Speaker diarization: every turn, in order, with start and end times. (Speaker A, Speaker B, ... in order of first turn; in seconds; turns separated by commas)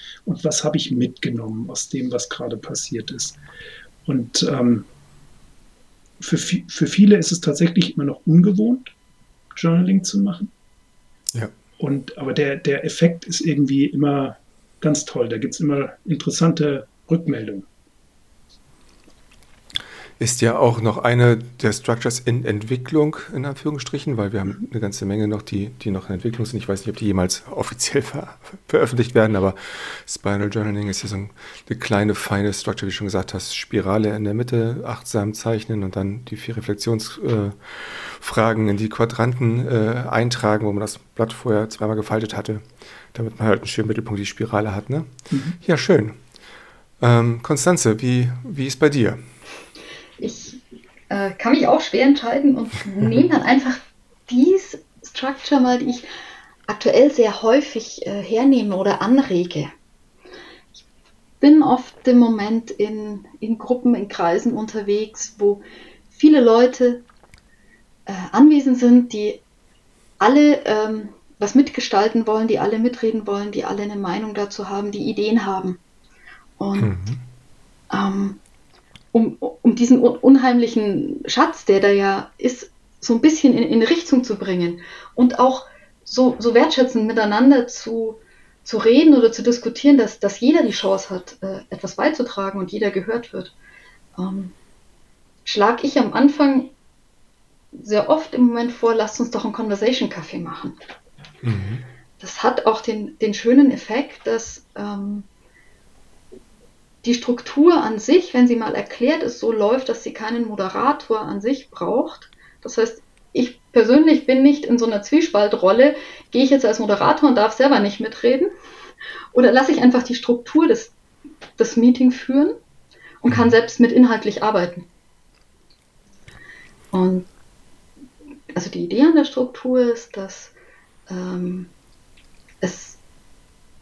Speaker A: 0.2-3.4, Speaker A: 4.0-4.9, Speaker A: 6.2-8.9, Speaker A: 9.5-10.5, Speaker A: 11.8-17.7, Speaker B: 20.2-46.2, Speaker A: 45.3-45.6, Speaker B: 47.0-49.2, Speaker C: 50.2-56.1, Speaker C: 56.7-59.7, Speaker C: 61.4-67.1, Speaker C: 68.1-69.4, Speaker C: 70.2-75.8, Speaker C: 76.6-77.0, Speaker B: 76.8-77.2, Speaker C: 77.9-78.4, Speaker C: 79.1-93.5, Speaker C: 94.2-94.5, Speaker C: 95.4-96.7, Speaker C: 97.7-100.8, Speaker B: 101.4-101.8, Speaker C: 102.2-105.2, Speaker C: 107.0-118.5, Speaker C: 119.3-120.9, Speaker C: 121.6-122.6, Speaker C: 123.2-124.9, Speaker B: 123.3-123.5, Speaker C: 126.9-127.3, Speaker C: 128.5-130.5, Speaker C: 131.1-131.7, Speaker C: 132.6-133.0